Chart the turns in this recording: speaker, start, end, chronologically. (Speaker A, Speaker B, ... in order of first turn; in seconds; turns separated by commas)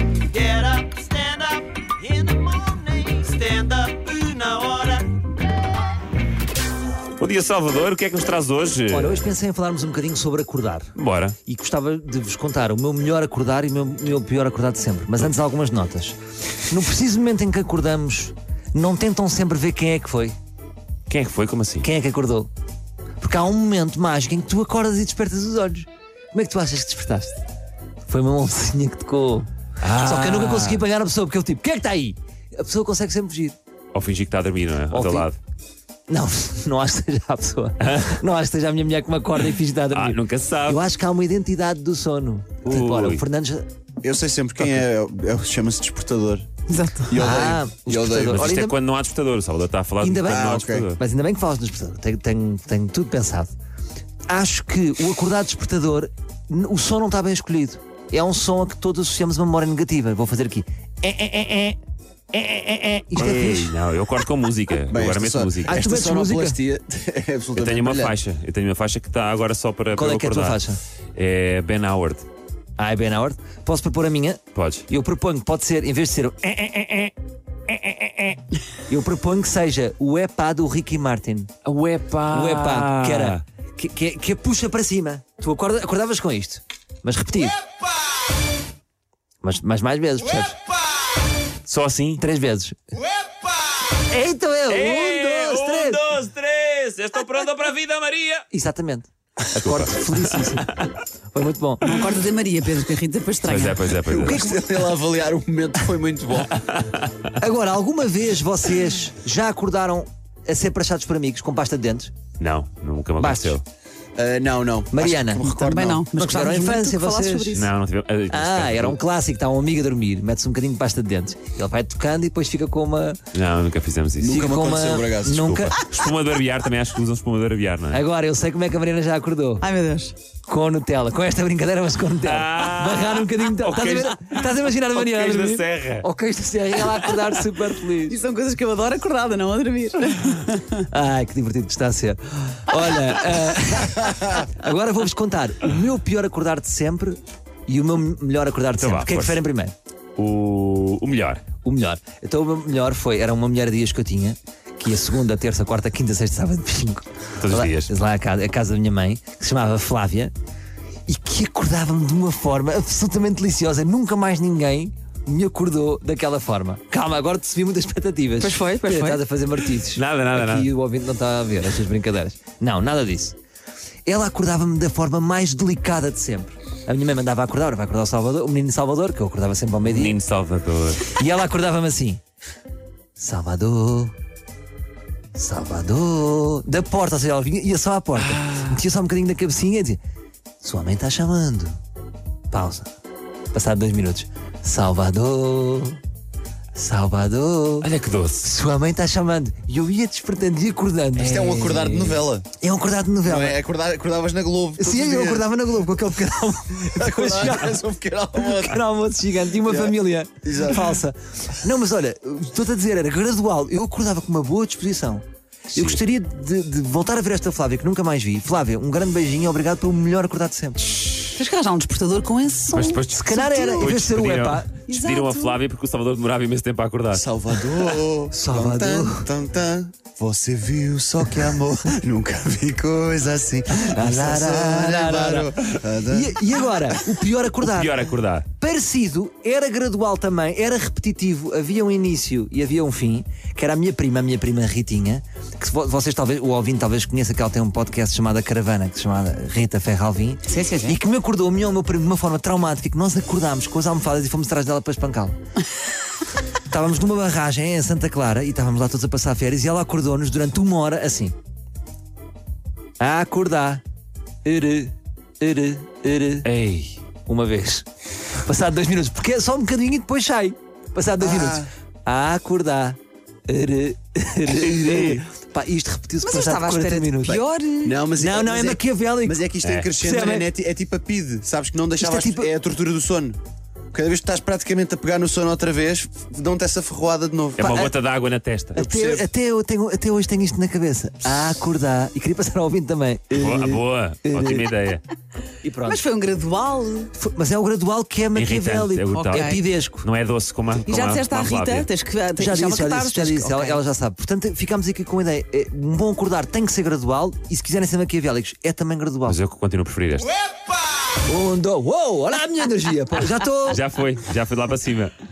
Speaker A: 0.4-3.0, Speaker B: 2.5-4.3, Speaker A: 3.8-4.9, Speaker B: 7.2-9.3, Speaker C: 8.9-10.9, Speaker B: 11.0-11.4, Speaker C: 11.4-20.4, Speaker B: 21.1-21.9, Speaker C: 21.8-22.5, Speaker C: 23.2-27.4, Speaker C: 28.1-33.6, Speaker B: 29.8-30.8, Speaker B: 33.9-35.4, Speaker C: 34.9-35.3, Speaker C: 36.1-43.7, Speaker B: 37.8-38.2, Speaker B: 39.9-40.8, Speaker B: 42.6-43.2, Speaker D: 44.0-46.5, Speaker E: 46.7-47.1, Speaker D: 47.1-48.5, Speaker C: 47.2-48.8, Speaker B: 48.3-51.0, Speaker C: 50.0-53.5, Speaker D: 50.2-50.9, Speaker C: 54.3-61.8, Speaker C: 62.3-63.7, Speaker B: 63.1-65.8, Speaker D: 64.9-68.2, Speaker C: 65.7-66.6, Speaker B: 67.6-70.6, Speaker C: 69.9-70.8, Speaker B: 71.2-72.3, Speaker C: 72.8-77.1, Speaker B: 74.5-74.9, Speaker C: 77.7-81.5, Speaker B: 81.7-83.4, Speaker C: 82.3-87.6, Speaker C: 89.4-90.6, Speaker B: 91.7-92.2, Speaker C: 92.2-92.8, Speaker C: 94.1-96.0, Speaker B: 94.7-98.5, Speaker C: 98.5-100.7, Speaker B: 99.6-100.9, Speaker C: 101.3-101.9, Speaker E: 101.8-103.9, Speaker B: 103.4-104.4, Speaker D: 104.0-106.5, Speaker C: 104.1-104.9, Speaker B: 106.6-107.3, Speaker C: 107.4-112.1, Speaker B: 112.4-113.6, Speaker C: 113.2-113.6, Speaker D: 114.2-116.1, Speaker C: 114.9-115.6, Speaker E: 115.6-117.7, Speaker C: 116.2-117.6, Speaker B: 117.5-119.0, Speaker C: 118.3-123.2, Speaker B: 123.3-124.5, Speaker D: 124.2-125.4, Speaker C: 124.3-125.8, Speaker B: 125.3-128.0, Speaker C: 127.9-129.7, Speaker E: 129.6-130.2, Speaker C: 130.5-138.2, Speaker B: 132.2-136.1, Speaker B: 136.7-137.2, Speaker E: 138.1-140.8, Speaker C: 140.8-149.8, Speaker B: 148.8-149.4, Speaker B: 150.2-151.4, Speaker C: 151.6-160.3, Speaker B: 157.4-157.9, Speaker C: 161.1-173.4, Speaker E: 168.4-169.2, Speaker B: 169.7-170.7, Speaker C: 174.1-180.2, Speaker B: 179.8-181.2, Speaker C: 181.1-182.2, Speaker C: 183.2-184.1, Speaker C: 185.3-190.0, Speaker B: 188.2-188.8, Speaker C: 190.6-191.8, Speaker C: 192.5-192.9, Speaker C: 193.5-196.0, Speaker C: 196.8-197.9, Speaker B: 197.8-198.5, Speaker C: 198.4-203.6, Speaker D: 201.2-202.5, Speaker D: 203.2-205.5, Speaker C: 204.8-207.8, Speaker D: 207.0-208.8, Speaker C: 208.3-220.9, Speaker D: 209.7-210.9, Speaker B: 215.7-216.0, Speaker E: 221.3-223.1, Speaker B: 222.7-228.0, Speaker C: 223.1-224.7, Speaker E: 223.6-223.9, Speaker E: 224.9-225.6, Speaker D: 227.1-237.0, Speaker C: 228.3-229.3, Speaker C: 233.7-255.3, Speaker B: 237.6-238.5, Speaker E: 250.5-250.9, Speaker C: 256.7-261.4, Speaker C: 263.0-263.8, Speaker C: 264.4-266.5, Speaker B: 266.4-267.0, Speaker C: 267.3-277.4, Speaker D: 271.2-271.7, Speaker D: 274.5-275.2, Speaker E: 276.2-278.0, Speaker D: 277.8-283.4, Speaker C: 278.2-280.5, Speaker B: 279.6-279.9, Speaker C: 282.0-282.5, Speaker D: 283.9-287.9, Speaker B: 287.6-288.8, Speaker D: 288.7-289.3, Speaker C: 288.8-294.7, Speaker B: 293.3-295.0, Speaker C: 295.6-296.0, Speaker E: 295.9-297.1, Speaker C: 297.2-300.1, Speaker B: 298.3-301.9, Speaker E: 299.1-299.6, Speaker E: 300.9-303.8, Speaker C: 302.4-309.4, Speaker B: 309.3-310.3, Speaker C: 311.2-313.8, Speaker B: 313.7-315.1